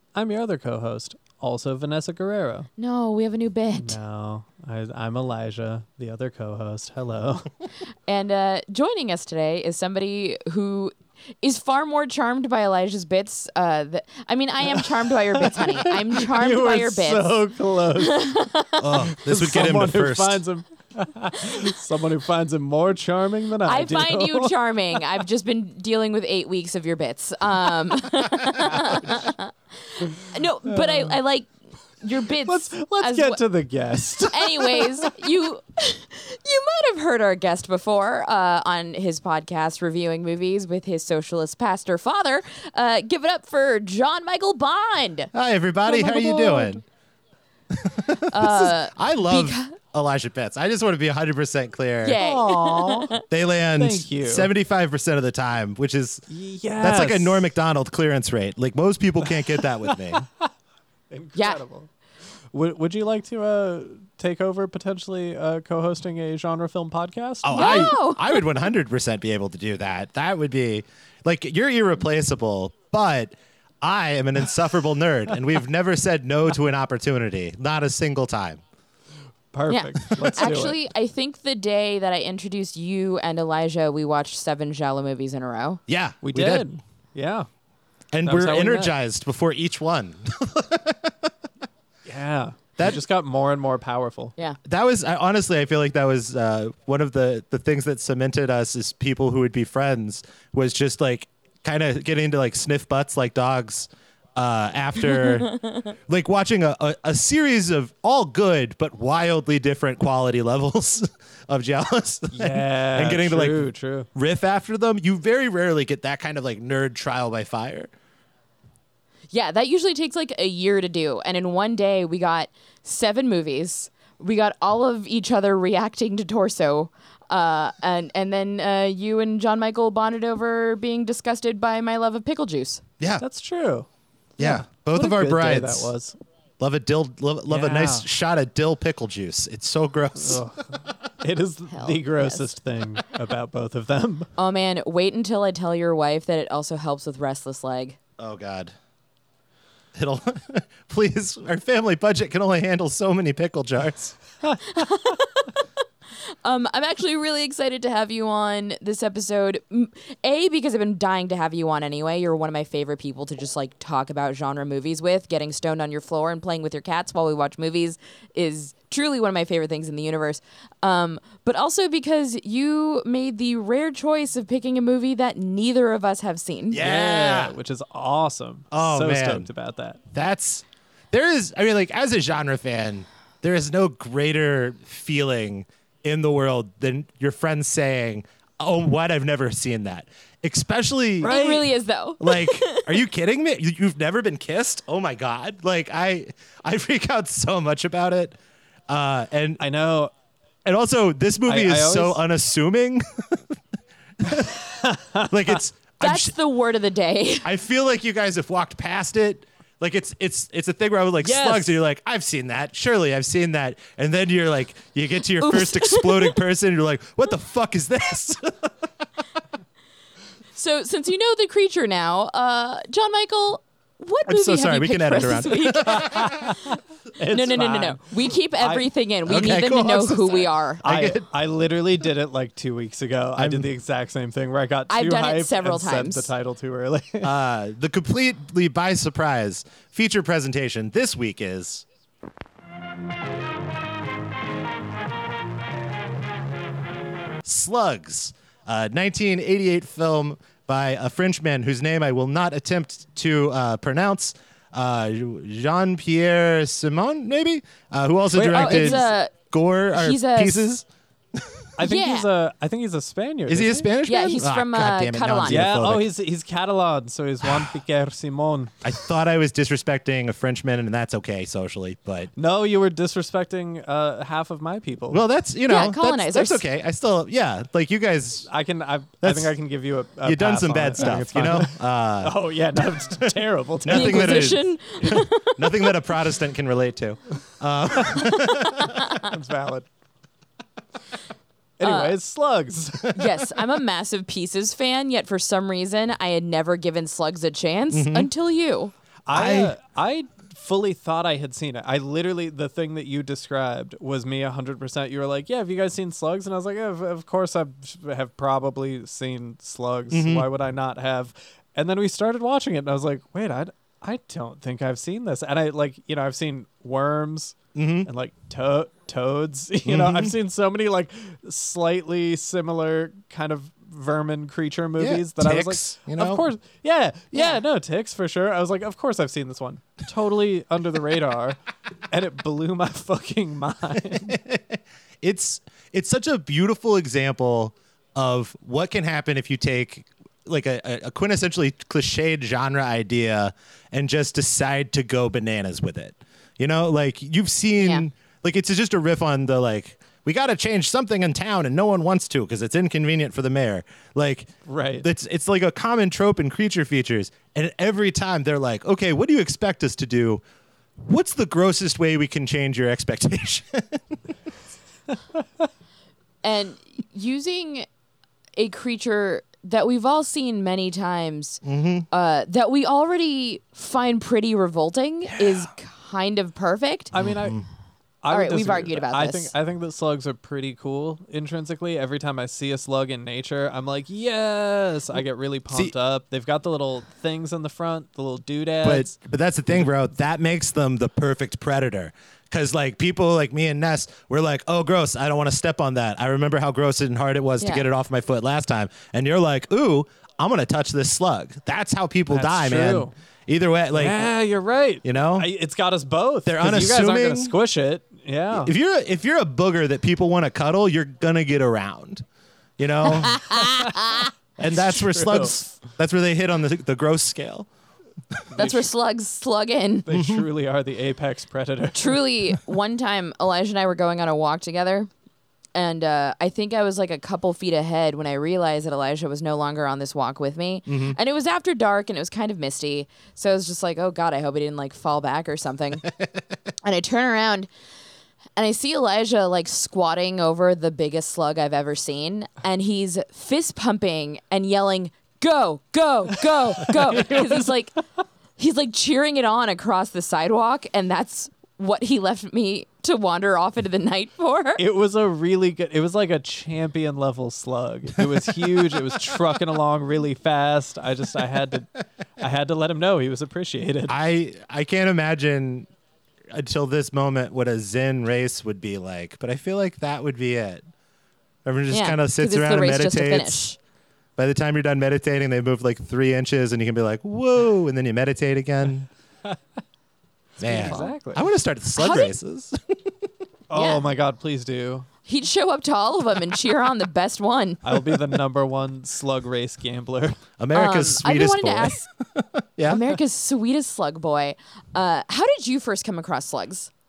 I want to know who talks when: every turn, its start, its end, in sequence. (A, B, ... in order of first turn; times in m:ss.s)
0:00.2-0:02.7 A
0:02.8-0:04.0 B
0:03.7-0:07.5 A
0:08.1-0:17.4 B
0:15.4-0:18.3 A
0:18.0-0:19.0 B
0:18.8-0:20.4 C
0:19.0-0:25.0 A
0:21.4-0:21.8 B
0:23.6-0:33.4 B
0:30.7-0:31.1 A
0:32.5-0:35.2 A
0:34.2-0:45.3 B
0:45.3-0:46.8 C
0:45.9-0:46.8 B
0:47.7-0:52.2 C
0:48.2-0:49.7 B
0:52.0-0:53.2 B
0:52.2-0:53.1 A
0:53.3-0:56.2 C
0:53.8-0:54.5 A
0:56.3-0:57.4 A
0:56.8-1:00.3 C
0:59.8-1:00.5 A
1:01.1-1:01.9 A
1:01.4-1:01.6 B
1:02.5-1:07.6 A
1:07.4-1:18.6 C
1:07.5-1:08.4 B
1:19.5-1:20.8 A
1:19.7-1:25.8 B
1:20.1-1:20.7 C
1:25.9-1:26.7 C
1:26.2-1:27.5 A
1:28.1-1:31.3 C
1:28.2-1:28.9 A
1:32.1-1:34.3 A
1:32.8-1:33.0 C
1:34.6-1:53.6 C
1:52.3-1:54.1 A
1:54.1-1:57.9 C
1:59.3-2:12.8 B
2:13.2-2:13.9 A
2:14.4-2:15.9 C
2:14.4-2:16.2 A
2:16.6-2:20.4 C
2:17.5-2:18.1 A
2:20.2-2:24.3 A
2:21.7-2:22.5 B
2:24.4-2:28.0 B
2:28.2-2:28.7 C
2:30.0-2:34.2 C
2:34.7-2:35.5 B
2:36.4-2:56.8 B
2:56.7-2:57.5 C
2:56.8-3:00.0 A
2:58.7-2:59.5 C
3:00.1-3:11.4 C
3:11.2-3:11.7 A
3:11.2-3:13.0 B
3:12.2-3:18.4 C
3:18.9-3:19.6 C
3:19.6-3:20.1 A
3:20.6-3:23.6 C
3:21.5-3:22.2 A
3:24.2-3:24.6 C
3:24.7-3:25.3 A
3:25.3-3:26.3 C
3:26.0-3:27.5 B
3:27.4-3:38.9 C
3:31.2-3:31.7 A
3:35.4-3:36.4 B
3:40.6-3:50.8 B
3:44.3-3:46.5 C
3:45.9-3:48.0 A
3:48.6-3:48.9 A
3:49.3-3:51.3 C
3:50.8-3:57.4 A
3:53.4-3:53.7 C
3:54.9-3:56.3 B
3:57.2-4:01.8 C
4:07.4-4:21.7 C
4:18.3-4:19.1 A
4:18.6-4:19.3 B
4:19.9-4:20.7 B
4:21.8-4:23.9 A
4:21.8-4:22.3 B
4:23.5-4:26.1 C
4:24.0-4:25.6 B
4:25.5-4:28.9 A
4:27.4-4:27.7 C
4:28.8-4:32.3 C
4:32.4-4:35.2 A
4:35.1-4:38.5 C
4:35.7-4:36.6 B
4:38.5-4:44.6 A
4:39.2-4:39.5 C
4:40.2-4:49.1 C
4:43.9-4:45.9 B
4:48.1-4:49.3 B
4:49.2-4:49.9 A
4:51.8-4:53.3 A
4:51.8-4:52.2 B
4:53.1-4:58.9 B
4:57.9-4:58.3 C
4:59.3-5:31.6 A
4:59.3-4:59.8 C
5:10.1-5:10.5 C
5:17.8-5:18.1 C
5:19.9-5:20.3 C
5:25.0-5:26.5 C
5:27.3-5:27.6 B
5:32.1-5:34.4 A
5:34.0-6:00.4 C
5:47.8-5:48.1 B
5:54.7-5:55.1 A
6:01.0-6:04.2 C
6:06.4-6:07.9 B
6:08.6-6:17.1 B
6:11.6-6:12.1 C
6:17.1-6:17.6 A
6:17.2-6:17.6 C
6:18.2-6:29.2 A
6:18.3-6:19.5 B
6:28.8-6:44.3 C
6:29.7-6:29.9 A
6:42.3-6:43.1 A
6:43.9-6:48.7 A
6:45.0-6:45.5 C
6:46.4-6:47.5 C
6:48.5-6:52.2 C
6:52.8-6:53.6 C
6:53.1-6:54.3 B
6:54.6-6:57.7 C
6:55.0-6:55.6 A
6:58.6-7:00.1 B
7:00.1-7:02.2 A
7:00.1-7:00.4 C
7:02.0-7:05.1 B
7:05.8-7:16.1 B
7:10.9-7:11.2 C
7:16.8-7:17.7 B
7:18.6-7:28.0 B
7:26.9-7:27.7 A
7:28.6-7:34.8 B
7:34.8-7:44.2 A
7:38.5-7:38.7 C
7:44.1-7:45.9 C
7:46.5-7:50.8 C
7:51.6-7:53.7 C
7:51.9-7:53.8 B
7:54.4-7:59.1 C
8:00.6-8:01.5 A
8:00.6-8:03.3 C
8:02.0-8:02.3 B
8:03.7-8:05.1 A
8:03.8-8:04.0 B
8:05.3-8:07.8 B
8:07.8-8:10.4 A
8:10.6-8:13.0 C
8:10.7-8:12.1 B
8:12.9-8:16.9 B